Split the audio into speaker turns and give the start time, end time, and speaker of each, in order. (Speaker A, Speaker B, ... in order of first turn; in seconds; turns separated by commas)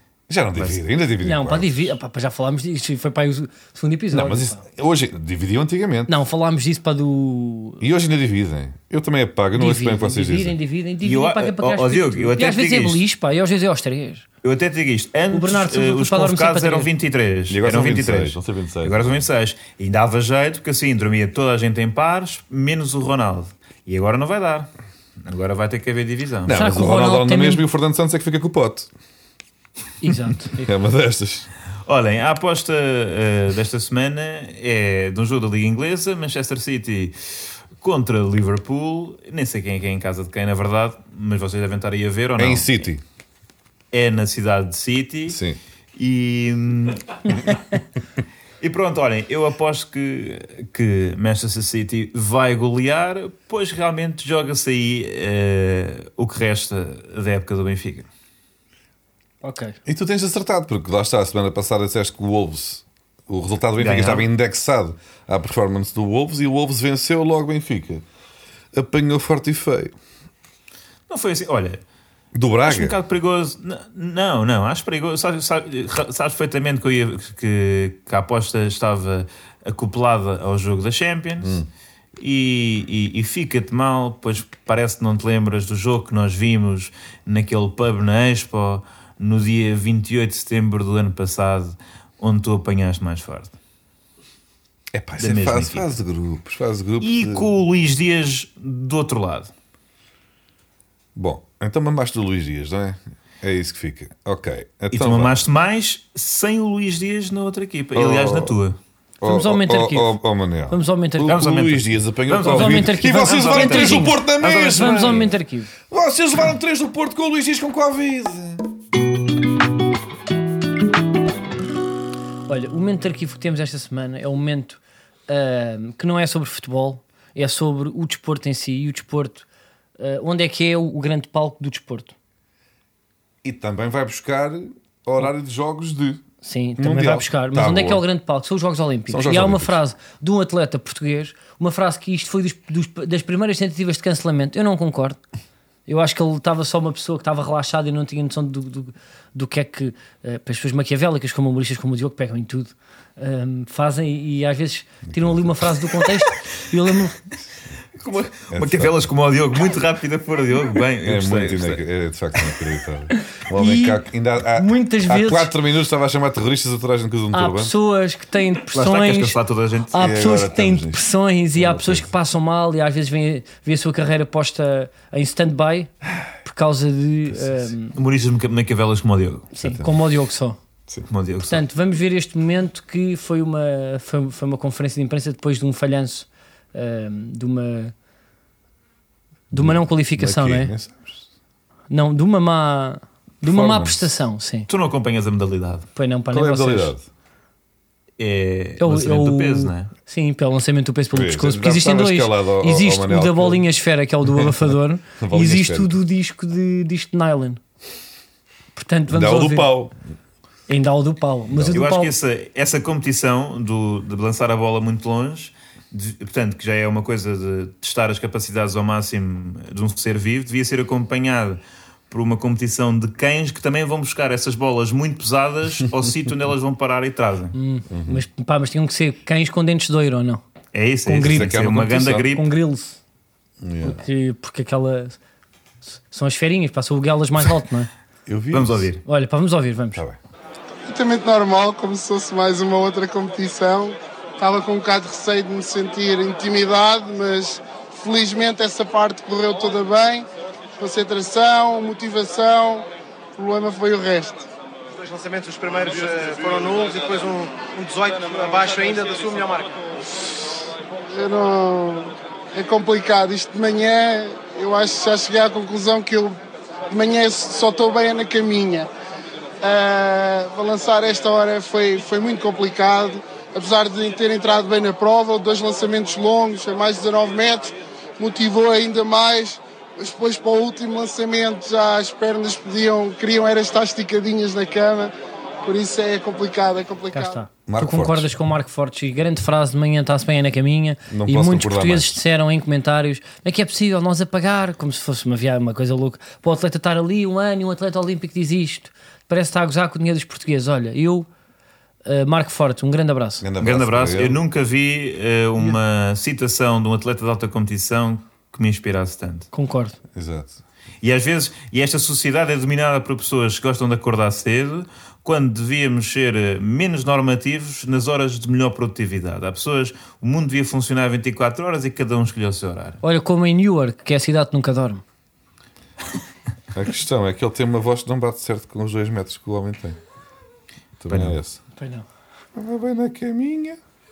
Speaker A: 0.3-1.9, Speaker B: 1.2-4.6, Speaker A: 4.1-6.1, Speaker B: 6.1-7.8, Speaker A: 7.8-10.6, Speaker B: 9.6-14.2, Speaker C: 11.0-13.0, Speaker C: 14.4-24.7, Speaker B: 15.3-16.9, Speaker A: 17.5-19.2, Speaker C: 25.2-26.6, Speaker A: 26.5-28.9, Speaker B: 26.5-27.6, Speaker B: 30.0-30.7, Speaker A: 30.6-31.5, Speaker C: 31.9-42.7, Speaker A: 42.4-43.0, Speaker C: 43.9-45.4, Speaker A: 45.3-45.6, Speaker C: 46.0-47.6, Speaker C: 48.6-58.1, Speaker B: 59.4-59.8, Speaker A: 59.9-68.0, Speaker C: 63.8-64.3, Speaker A: 68.7-69.9, Speaker C: 71.1-71.8, Speaker A: 72.3-73.0, Speaker C: 72.7-81.6, Speaker A: 81.4-81.7, Speaker C: 82.2-93.6, Speaker A: 94.9-97.5, Speaker C: 95.2-95.9, Speaker C: 97.0-99.5, Speaker A: 101.2-105.4, Speaker C: 104.9-108.8, Speaker A: 108.0-108.5, Speaker A: 109.2-115.3, Speaker B: 109.2-110.2, Speaker B: 110.7-111.4, Speaker C: 111.2-115.3, Speaker B: 112.4-115.7, Speaker A: 115.9-118.7, Speaker B: 122.5-129.5, Speaker B: 130.0-132.2, Speaker A: 133.4-136.2, Speaker B: 136.4-145.2, Speaker A: 136.8-138.0, Speaker A: 139.1-139.8, Speaker B: 145.9-157.2, Speaker A: 155.1-155.7, Speaker C: 158.0-161.8, Speaker A: 158.5-159.1, Speaker A: 161.0-167.7, Speaker B: 163.6-164.0, Speaker B: 164.6-165.5, Speaker B: 167.3-169.4, Speaker C: 168.7-170.0, Speaker B: 169.9-175.9, Speaker A: 169.9-172.1, Speaker B: 176.4-177.9, Speaker A: 177.3-177.7, Speaker C: 178.0-179.5, Speaker B: 179.5-180.6, Speaker A: 179.6-180.0, Speaker C: 181.1-181.6, Speaker B: 181.5-187.9, Speaker B: 189.5-190.7, Speaker A: 189.5-191.2, Speaker B: 191.9-194.7, Speaker A: 193.4-194.1, Speaker C: 194.7-195.9, Speaker B: 196.0-196.9, Speaker A: 196.3-197.1, Speaker C: 198.2-199.9, Speaker B: 198.8-207.6, Speaker A: 201.1-203.7, Speaker A: 205.2-206.0, Speaker B: 208.8-209.7, Speaker A: 209.1-210.0, Speaker B: 210.7-212.1, Speaker A: 211.5-211.8, Speaker C: 211.7-227.6, Speaker B: 227.5-230.4, Speaker A: 227.9-228.2, Speaker C: 230.7-232.5, Speaker B: 231.1-231.7, Speaker A: 231.2-232.3, Speaker B: 232.3-233.0, Speaker A: 233.6-234.0, Speaker B: 233.8-235.2, Speaker B: 236.1-237.9, Speaker A: 238.3-238.9, Speaker C: 238.5-239.0, Speaker B: 239.1-240.0, Speaker A: 239.9-240.2, Speaker D: 240.9-250.3, Speaker D: 250.8-254.5, Speaker E: 255.0-259.8, Speaker D: 261.1-266.4, Speaker D: 266.9-268.9, Speaker D: 269.6-285.1, Speaker D: 285.6-287.4, Speaker B: 287.1-301.3, Speaker A: 287.7-288.3, Speaker A: 291.1-292.2, Speaker B: 302.1-303.4, Speaker A: 303.4-304.4, Speaker C: 303.6-309.5, Speaker B: 309.5-310.0, Speaker A: 310.1-310.6, Speaker C: 311.0-323.0, Speaker B: 323.0-325.0, Speaker A: 326.7-330.0, Speaker A: 331.0-331.6, Speaker C: 331.1-331.4, Speaker B: 331.8-332.1, Speaker A: 332.6-333.8